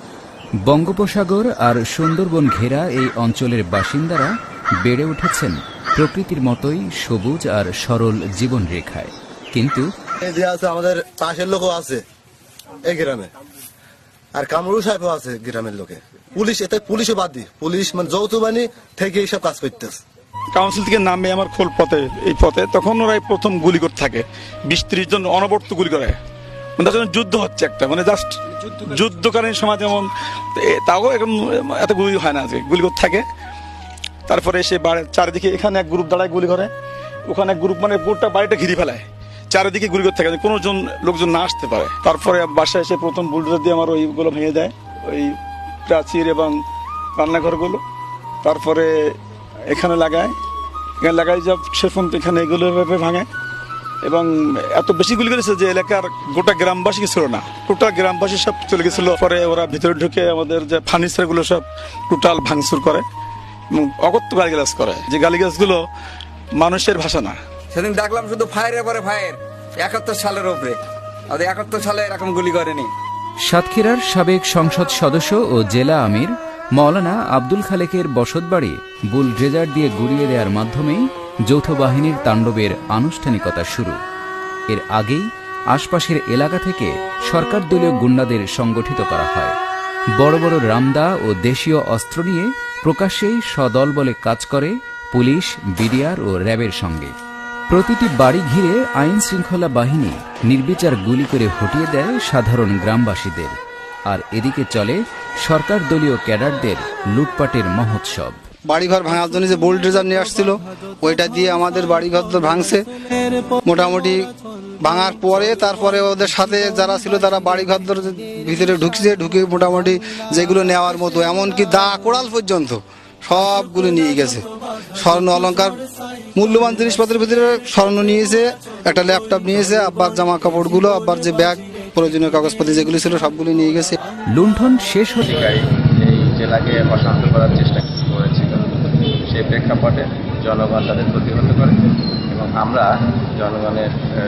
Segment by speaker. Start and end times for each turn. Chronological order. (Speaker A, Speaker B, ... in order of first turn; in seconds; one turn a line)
Speaker A: 0.7-9.9
Speaker B: 10.2-12.0
Speaker B: 12.9-13.3
Speaker B: 14.3-20.0
Speaker C: 20.5-26.2
Speaker C: 26.8-33.2
Speaker C: 34.3-36.7
Speaker C: 37.3-45.4
Speaker C: 45.9-46.6
Speaker C: 47.2-47.8
Speaker C: 48.4-49.1
Speaker C: 49.7-50.3
Speaker C: 51.0-53.3
Speaker C: 54.0-63.0
Speaker C: 63.7-65.8
Speaker C: 66.6-67.4
Speaker D: 67.7-70.8
Speaker D: 71.3-72.9
Speaker A: 73.5-84.0
Speaker A: 84.7-89.5
Speaker A: 90.2-97.1
Speaker A: 97.7-103.5
Speaker A: 104.1-108.4
Speaker E: 108.7-112.8
Speaker E: 113.7-114.2
Speaker E: 114.8-124.4
Speaker E: 125.0-125.8
Speaker E: 126.4-134.0
Speaker A: 134.3-135.6
Speaker F: 135.2-138.7
Speaker F: 139.3-141.8
Speaker F: 142.3-143.9